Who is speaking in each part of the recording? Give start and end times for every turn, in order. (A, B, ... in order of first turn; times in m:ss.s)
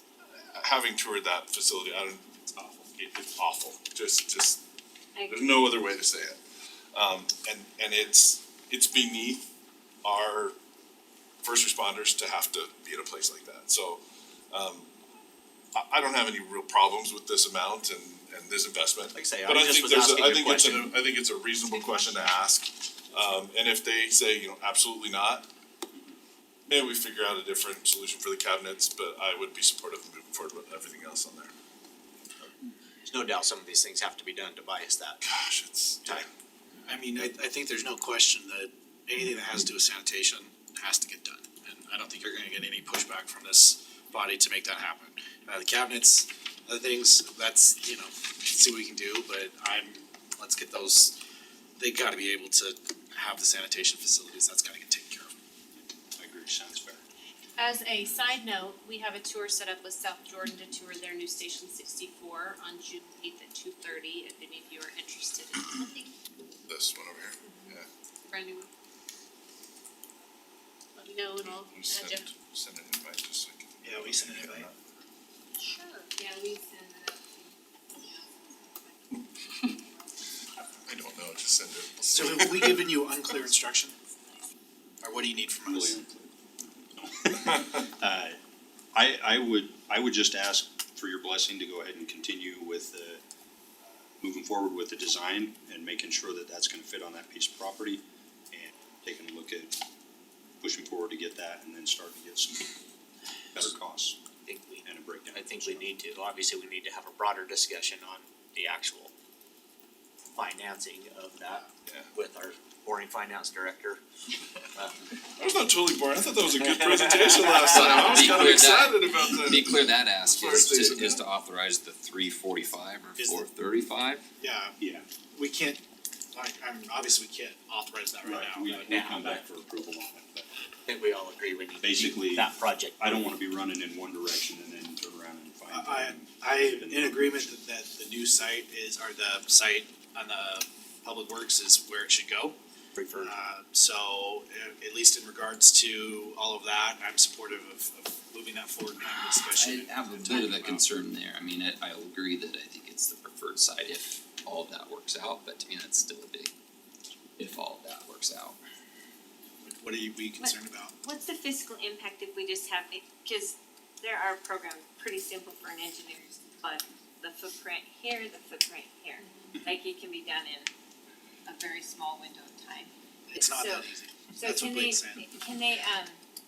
0:00.3-0:04.6 A
0:05.2-0:05.6 B
0:05.3-0:06.4 A
0:06.9-0:09.4 A
0:10.0-0:10.5 A
0:11.4-0:14.9 A
0:15.7-0:25.5 A
0:19.1-0:21.0 C
0:21.6-0:22.4 D
0:26.7-0:31.5 A
0:33.0-0:35.2 C
0:35.2-0:36.2 A
0:36.9-0:51.1 E
0:51.8-0:55.3 E
0:56.2-0:57.0 F
0:57.6-1:06.1 D
1:06.7-1:07.9 A
1:07.4-1:08.7 D
1:11.0-1:12.3 D
1:11.4-1:14.8 A
1:13.8-1:14.7 E
1:15.6-1:16.2 D
1:16.1-1:18.2 B
1:20.8-1:22.9 A
1:22.1-1:23.9 E
1:25.0-1:26.0 E
1:25.7-1:28.4 F
1:28.9-1:33.2 F
1:33.9-1:39.8 F
1:40.6-1:42.8 F
1:43.5-1:44.2 F
1:44.4-1:49.1 C
1:44.8-1:45.9 F
1:50.3-1:54.0 C
1:55.4-2:01.2 A
1:56.6-1:58.3 C
1:57.6-2:04.2 G
2:03.2-2:03.5 E
2:04.4-2:04.8 E
2:04.8-2:05.0 F
2:05.3-2:05.8 E
2:06.3-2:08.7 E
2:08.2-2:10.5 F
2:08.7-2:09.4 C
2:10.8-2:13.3 C
2:11.8-2:17.5 F
2:15.7-2:22.6 E
2:23.0-2:23.3 C
2:23.1-2:30.8 E
2:29.5-2:36.5 G
2:37.4-2:38.6 G
2:39.6-2:40.9 E
2:40.4-2:50.7 B
2:49.2-2:49.6 D
2:51.4-2:56.2 B
2:53.3-2:55.3 E